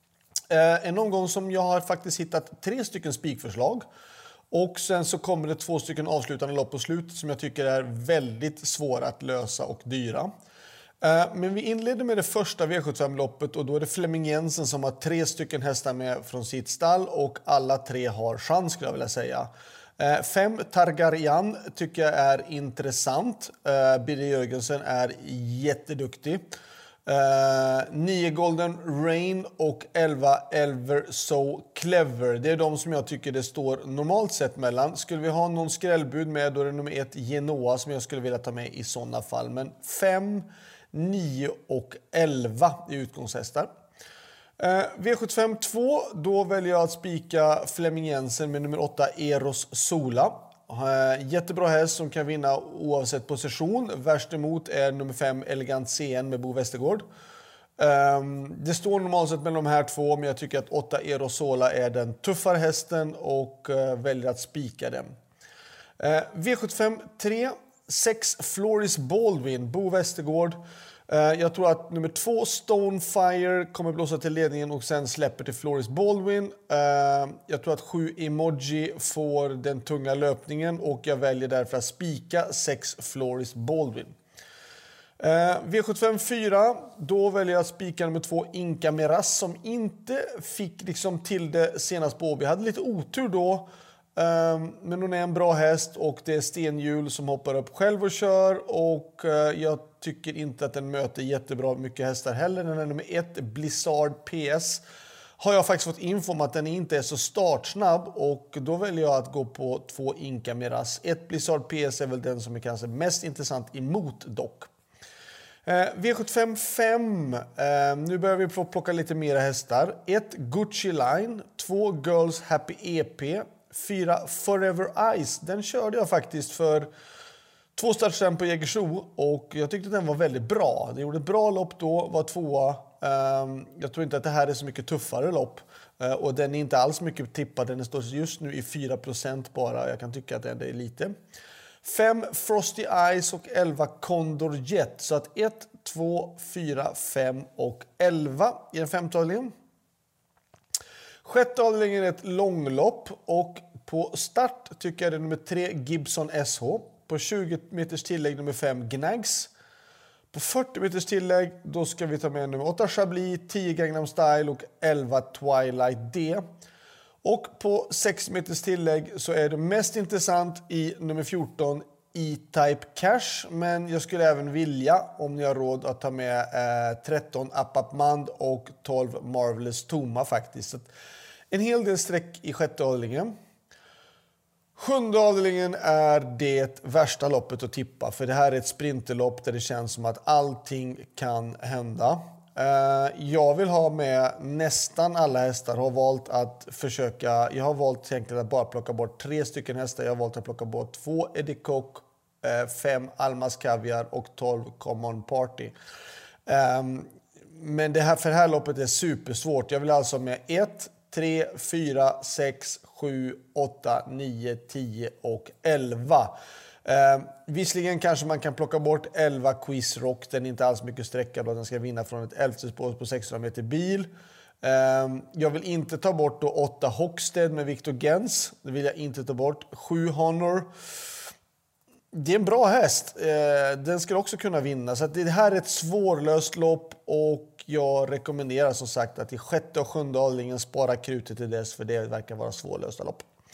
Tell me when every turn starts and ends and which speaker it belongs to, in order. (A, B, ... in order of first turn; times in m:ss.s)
0:00.5-0:03.8 A
0:04.5-0:10.3 A
0:11.0-0:26.4 A
0:27.1-0:43.7 A
0:44.6-0:57.0 A
0:57.8-1:05.1 A
1:06.0-1:24.2 A
1:25.2-1:44.8 A
1:45.4-1:54.7 A
1:55.7-2:06.9 A
2:07.8-2:21.1 A
2:21.8-2:29.5 A
2:31.2-2:39.5 A
2:40.3-2:46.4 A
2:47.2-3:00.9 A
3:01.5-3:03.3 A
3:04.8-3:25.7 A
3:26.5-3:44.1 A
3:44.6-3:50.7 A
3:52.1-4:03.2 A